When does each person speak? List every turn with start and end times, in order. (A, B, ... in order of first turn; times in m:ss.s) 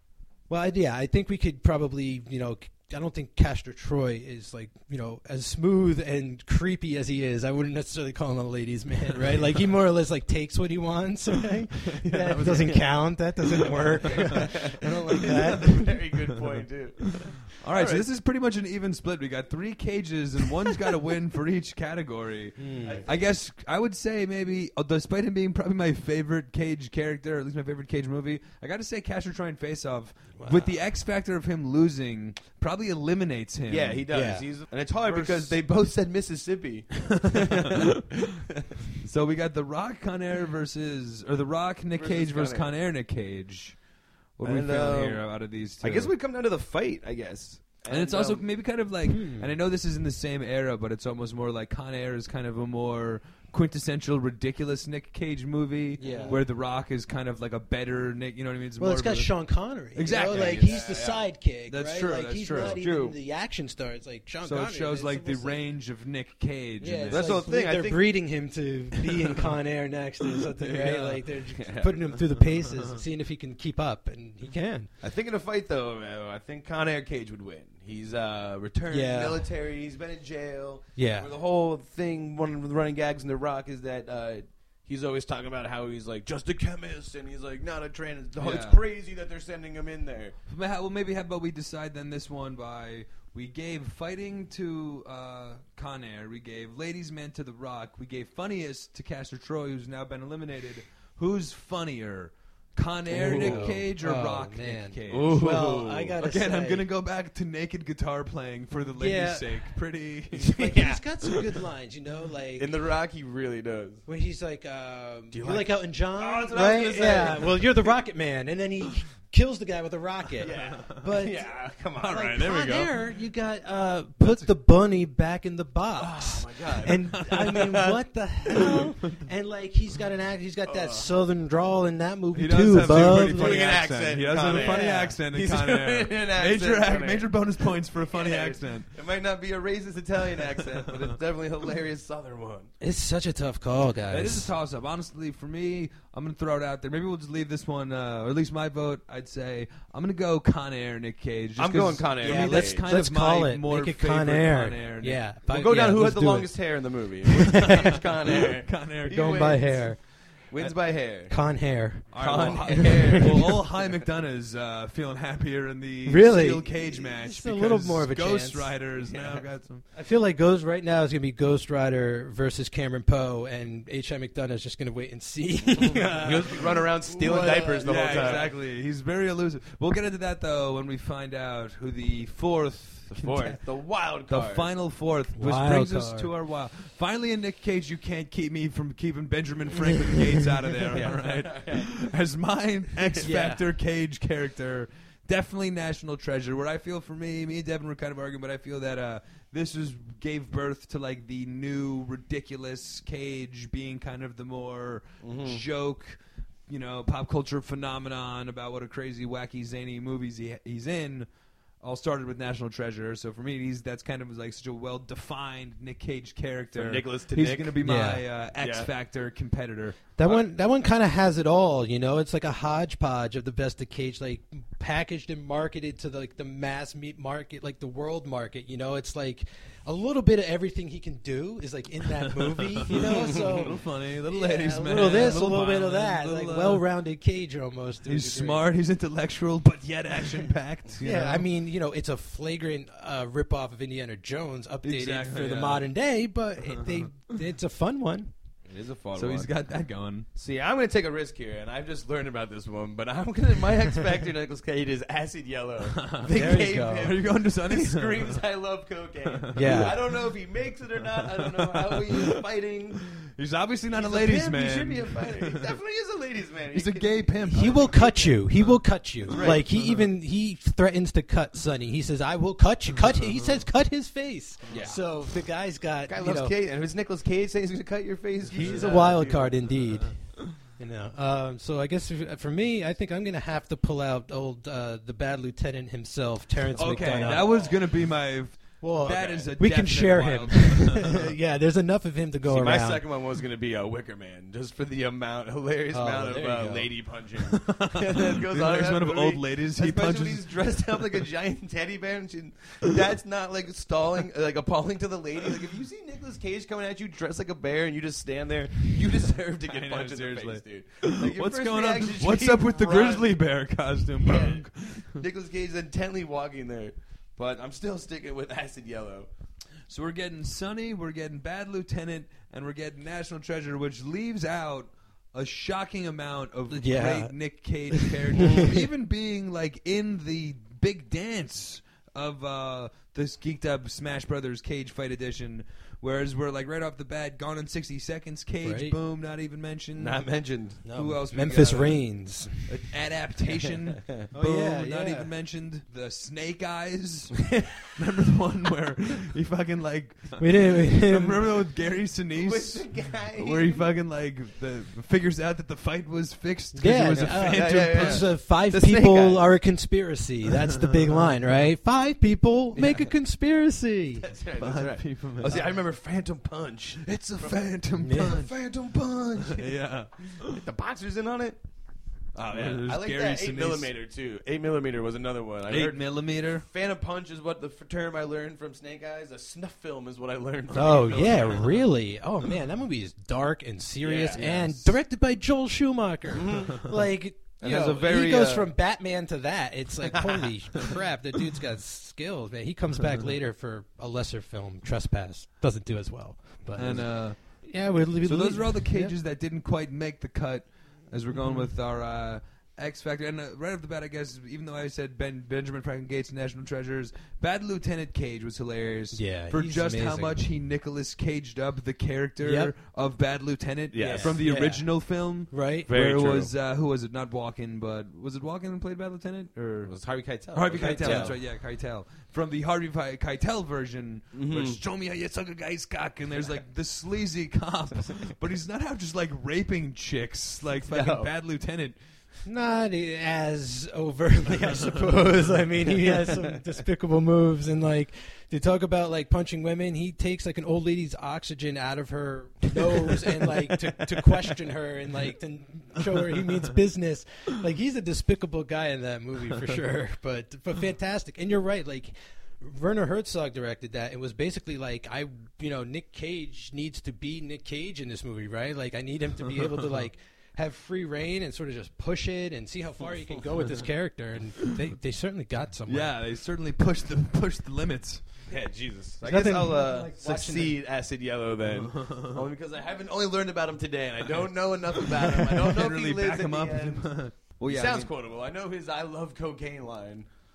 0:00.5-0:16.0 A
0:12.0-0:18.0 B
0:17.6-0:34.1 C
0:22.6-0:23.0 A
0:22.8-0:23.2 B
0:30.4-0:30.7 A
0:33.7-0:37.9 B
0:34.1-0:34.4 A
0:35.0-0:35.6 C
0:37.3-0:38.2 C
0:39.0-0:43.8 C
0:41.9-0:42.7 B
0:44.4-0:46.1 C
0:44.4-0:48.5 B
0:47.9-0:59.4 C
0:49.1-0:49.5 A
0:56.0-0:56.4 A
0:56.0-0:56.4 B
0:58.8-1:05.6 A
0:59.9-1:00.9 C
1:00.2-1:01.2 B
1:01.7-1:02.8 C
1:02.5-1:03.2 B
1:04.4-1:07.4 C
1:06.8-1:14.9 A
1:07.1-1:08.2 B
1:10.7-1:11.0 C
1:10.7-1:12.1 B
1:15.0-1:30.4 B
1:18.9-1:19.5 A
1:21.0-1:21.3 A
1:28.4-1:28.8 C
1:30.5-1:45.4 C
1:43.1-1:43.8 B
1:43.2-1:46.9 A
1:45.1-1:46.2 B
1:46.2-1:50.9 C
1:49.0-1:49.8 A
1:50.4-1:52.7 A
1:50.6-1:51.0 B
1:52.6-1:54.0 B
1:54.1-2:13.8 A
1:55.3-1:57.9 B
2:00.4-2:02.9 B
2:00.6-2:01.0 C
2:04.2-2:04.5 C
2:06.0-2:08.0 B
2:07.1-2:07.6 C
2:08.5-2:08.8 B
2:10.6-2:11.1 B
2:12.3-2:18.9 C
2:13.0-2:22.7 B
2:14.4-2:15.2 A
2:20.6-2:21.1 C
2:22.8-2:24.5 A
2:24.1-2:35.2 C
2:31.6-2:32.9 B
2:32.2-2:36.8 A
2:35.4-2:41.4 B
2:37.3-2:38.0 A
2:38.2-2:39.4 C
2:39.0-2:40.0 A
2:41.3-2:43.5 A
2:42.1-2:49.8 C
2:42.1-2:43.7 B
2:46.0-2:48.8 A
2:49.1-2:49.4 B
2:49.9-2:58.5 A
2:55.8-2:58.6 B
2:57.8-3:03.5 C
3:03.1-3:04.7 B
3:04.3-3:31.3 C
3:05.3-3:06.3 A
3:10.9-3:12.1 B
3:13.2-3:13.6 A
3:25.2-3:25.6 B
3:31.8-3:40.1 C
3:36.7-3:37.8 B
3:37.8-3:38.2 A
3:38.6-3:38.9 B
3:40.2-3:58.6 A
3:52.3-3:56.8 C
3:52.9-3:53.7 B
3:58.0-4:01.5 C
4:01.0-4:08.3 A
4:04.8-4:05.9 C
4:06.7-4:07.1 C
4:08.7-4:09.5 B
4:09.1-4:10.3 C
4:10.3-4:23.1 B
4:15.9-4:18.4 C
4:16.3-4:17.1 A
4:19.2-4:19.9 C
4:19.5-4:20.0 A
4:21.2-4:22.4 C
4:23.2-4:25.7 C
4:23.9-4:28.7 B
4:26.7-4:27.9 C
4:27.5-4:36.5 A
4:29.3-4:29.6 B
4:29.3-4:30.0 C
4:33.1-4:33.5 C
4:34.7-4:35.0 B
4:36.1-4:39.5 B
4:38.5-4:47.5 A
4:38.6-4:39.2 C
4:46.8-4:47.9 B
4:46.8-4:51.3 C
4:48.8-4:53.0 A
4:49.1-4:49.5 B
4:52.5-5:13.4 B
4:55.9-4:56.9 A
4:57.5-5:00.5 C
5:09.6-5:15.2 C
5:14.2-5:19.3 B
5:19.9-5:40.2 C
5:26.7-5:28.7 A
5:38.6-5:39.0 A
5:40.0-5:40.8 B
5:40.8-5:42.7 A
5:40.9-5:42.0 C
5:42.6-5:58.3 C
5:43.7-5:44.1 B
5:44.3-5:45.3 A
5:50.4-5:51.5 A
5:52.3-5:53.9 B
5:56.7-6:04.3 A
5:57.1-5:59.5 B
6:04.2-6:09.8 B
6:04.6-6:05.7 C
6:07.0-6:08.5 C
6:08.0-6:08.4 A
6:09.4-6:10.6 C
6:10.3-6:11.6 B
6:12.3-6:21.8 B
6:12.5-6:13.9 C
6:15.7-6:16.6 C
6:20.7-6:39.1 A
6:24.0-6:24.9 B
6:26.3-6:26.9 B
6:27.6-6:28.7 B
6:36.8-6:59.9 C
6:41.3-6:41.7 A
6:49.1-6:50.4 A
6:52.4-6:52.7 A
6:53.9-6:54.4 B
6:54.0-6:55.9 A
6:55.9-6:56.5 B
6:59.8-7:01.3 B
7:00.5-7:12.0 C
7:00.7-7:01.4 A
7:04.3-7:04.8 B
7:10.8-7:11.3 B
7:12.4-7:46.1 A
7:16.3-7:16.6 B
7:45.9-7:48.2 C
7:48.5-7:57.1 B
7:49.2-7:50.8 A
7:51.7-7:52.4 C
7:55.1-7:58.1 C
7:57.6-8:00.3 B